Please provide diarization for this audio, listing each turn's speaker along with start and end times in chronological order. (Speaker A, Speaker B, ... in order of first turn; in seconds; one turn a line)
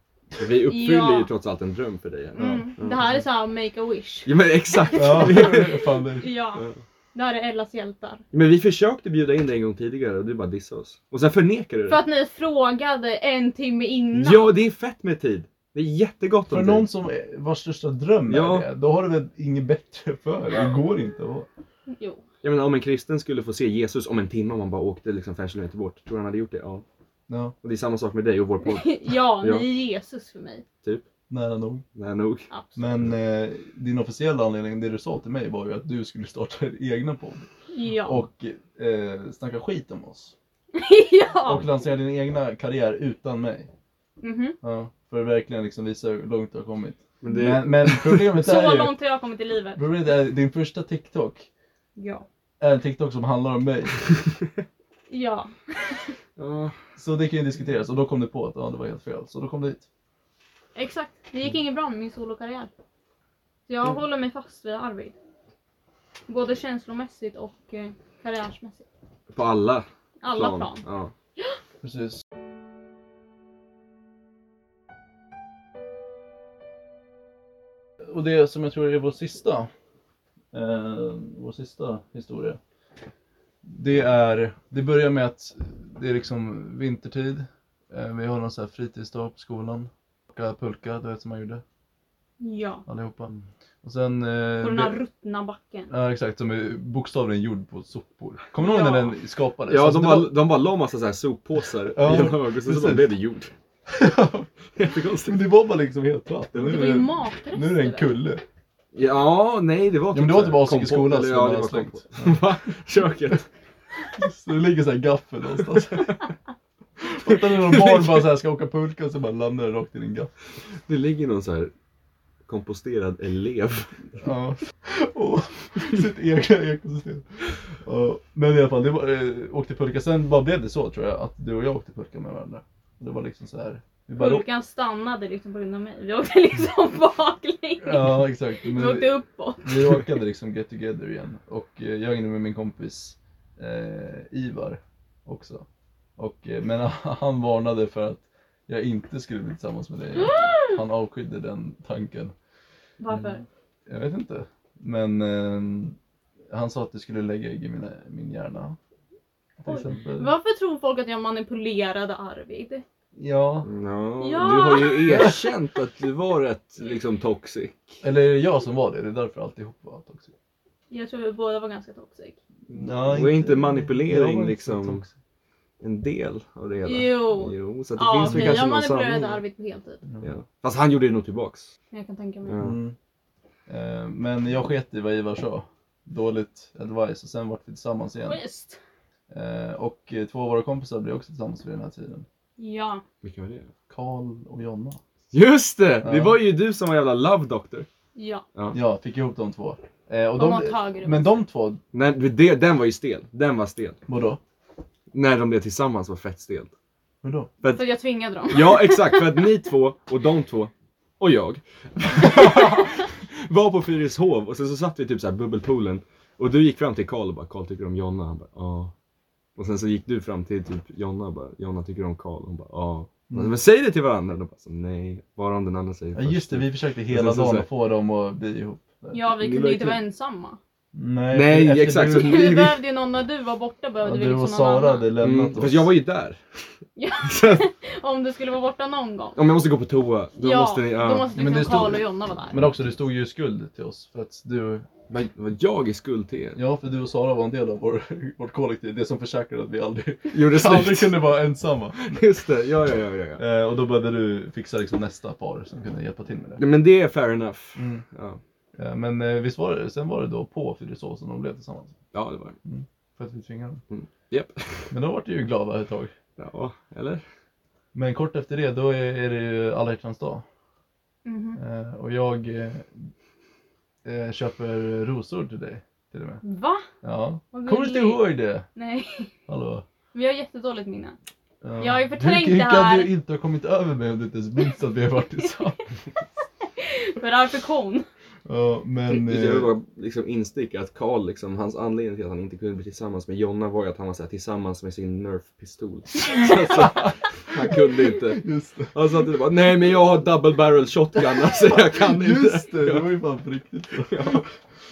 Speaker A: 0.4-3.1
Speaker B: 0.7-1.3
Speaker B: 2.4-8.2
Speaker C: 2.4-2.7
Speaker A: 4.3-5.8
Speaker C: 4.9-6.3
Speaker A: 8.3-12.0
Speaker B: 11.9-14.5
Speaker A: 14.1-16.9
Speaker C: 16.5-21.5
Speaker A: 18.3-18.7
Speaker B: 21.9-22.2
Speaker A: 22.4-26.8
Speaker C: 27.3-27.6
Speaker A: 27.6-29.7
Speaker B: 28.6-30.6
Speaker C: 31.3-31.8
Speaker A: 31.9-32.5
Speaker B: 32.5-32.8
Speaker C: 32.8-37.5
Speaker B: 37.7-38.2
Speaker C: 38.0-40.3
Speaker B: 40.8-41.6
Speaker C: 41.5-43.7
Speaker B: 44.2-44.6
Speaker C: 44.6-48.9
Speaker A: 47.2-48.4
Speaker B: 48.4-49.8
Speaker C: 49.8-51.5
Speaker B: 52.0-52.3
Speaker C: 52.6-54.0
Speaker B: 55.1-56.1
Speaker A: 56.4-56.8
Speaker C: 57.0-59.9
Speaker B: 60.8-62.7
Speaker B: 63.7-65.2
Speaker B: 66.3-68.9
Speaker A: 69.3-71.1
Speaker B: 70.2-70.8
Speaker C: 71.8-72.2
Speaker C: 78.1-79.7
Speaker C: 80.5-82.6
Speaker C: 83.7-91.6
Speaker B: 92.4-92.8
Speaker C: 92.9-93.3
Speaker C: 93.8-95.0
Speaker B: 94.6-95.9
Speaker C: 95.9-100.3
Speaker B: 98.6-99.2
Speaker A: 99.7-103.5
Speaker C: 102.0-103.1
Speaker C: 103.9-104.5
Speaker A: 104.8-105.4
Speaker C: 105.2-108.4
Speaker B: 106.5-108.1
Speaker A: 108.9-113.5
Speaker C: 110.1-112.4
Speaker C: 114.2-116.2
Speaker C: 117.0-120.3
Speaker A: 117.3-118.3
Speaker A: 120.9-121.7
Speaker A: 122.5-124.0
Speaker C: 124.2-134.4
Speaker B: 134.2-140.1
Speaker C: 137.8-145.7
Speaker C: 146.2-152.3
Speaker B: 150.2-150.8
Speaker B: 153.0-153.4
Speaker C: 153.9-156.0
Speaker C: 156.5-158.8
Speaker C: 159.6-160.3
Speaker B: 159.7-162.8
Speaker C: 163.2-163.7
Speaker A: 163.7-168.0
Speaker B: 164.2-165.3
Speaker C: 165.1-165.5
Speaker C: 168.0-170.3
Speaker B: 170.9-172.4
Speaker C: 172.7-175.1
Speaker A: 173.1-175.0
Speaker A: 175.8-179.4
Speaker B: 176.8-180.0
Speaker C: 178.2-178.6
Speaker A: 180.2-181.7
Speaker B: 181.9-182.6
Speaker A: 182.5-182.8
Speaker C: 182.6-183.0
Speaker C: 183.7-188.4
Speaker B: 188.2-188.8
Speaker C: 189.3-192.3
Speaker B: 192.6-193.0
Speaker A: 193.2-193.7
Speaker C: 193.9-195.0
Speaker A: 195.3-197.9
Speaker C: 196.0-196.4
Speaker B: 198.2-198.4
Speaker C: 198.7-201.8
Speaker B: 200.3-201.4
Speaker A: 201.9-204.0
Speaker C: 204.1-204.4
Speaker A: 205.1-206.7
Speaker C: 207.2-207.5
Speaker B: 207.7-209.4
Speaker A: 208.5-218.9
Speaker A: 219.6-227.7
Speaker C: 223.3-223.6
Speaker C: 226.2-229.2
Speaker B: 229.1-230.6
Speaker A: 229.4-230.0
Speaker C: 230.9-232.5
Speaker A: 231.3-232.8
Speaker B: 232.1-235.1
Speaker C: 234.0-235.9
Speaker A: 235.2-236.7
Speaker B: 237.0-239.4
Speaker A: 237.2-237.7
Speaker A: 239.4-241.3
Speaker B: 240.4-242.6
Speaker C: 241.4-244.9
Speaker A: 245.1-246.6
Speaker C: 246.6-252.2
Speaker A: 250.3-251.4
Speaker A: 252.0-253.4
Speaker C: 253.4-256.6
Speaker A: 256.6-258.4
Speaker C: 257.8-258.0
Speaker C: 258.8-262.0
Speaker A: 262.1-262.6
Speaker C: 262.6-263.8
Speaker A: 263.9-264.9
Speaker C: 264.9-266.1
Speaker A: 266.4-267.2
Speaker C: 267.9-270.4
Speaker B: 271.2-271.6
Speaker C: 271.6-273.1
Speaker C: 274.1-276.4
Speaker B: 276.4-276.9
Speaker C: 277.0-278.6
Speaker B: 277.5-279.3
Speaker C: 279.5-279.9
Speaker B: 280.1-281.2
Speaker C: 281.6-285.8
Speaker B: 281.8-283.1
Speaker B: 286.8-288.1
Speaker C: 288.5-289.7
Speaker A: 289.1-303.1
Speaker C: 296.8-297.1
Speaker C: 298.3-298.9
Speaker C: 301.7-304.4
Speaker A: 304.0-304.5